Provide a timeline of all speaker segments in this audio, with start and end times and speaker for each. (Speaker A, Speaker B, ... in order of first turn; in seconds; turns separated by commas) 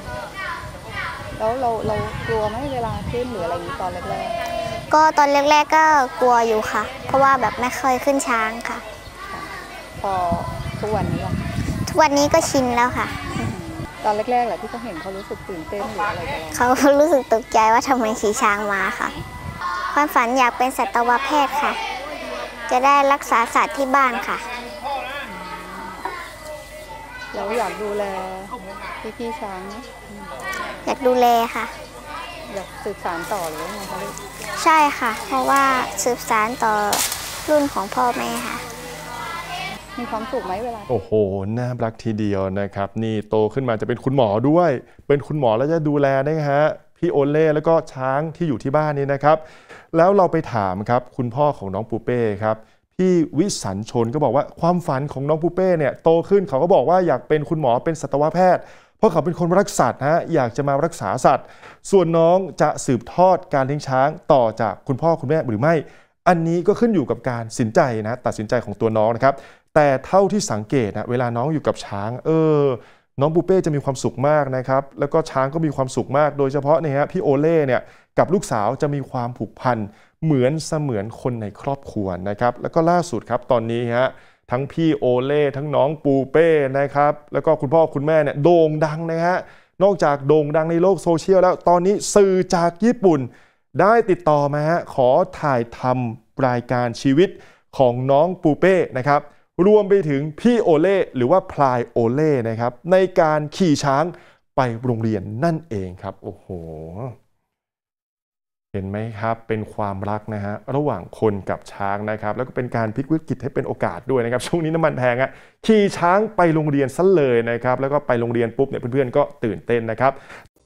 Speaker A: 1.4-4.4, Speaker B: 4.9-8.8, Speaker A: 9.3-11.4, Speaker B: 11.8-13.2, Speaker A: 13.3-16.6, Speaker B: 16.5-19.1, Speaker B: 19.9-21.8, Speaker B: 22.7-24.4, Speaker A: 25.6-26.0, Speaker A: 27.3-30.4, Speaker B: 30.8-31.7, Speaker A: 32.5-34.2, Speaker B: 34.6-38.6, Speaker A: 40.0-40.9, Speaker C: 40.9-107.2, Speaker C: 108.7-120.2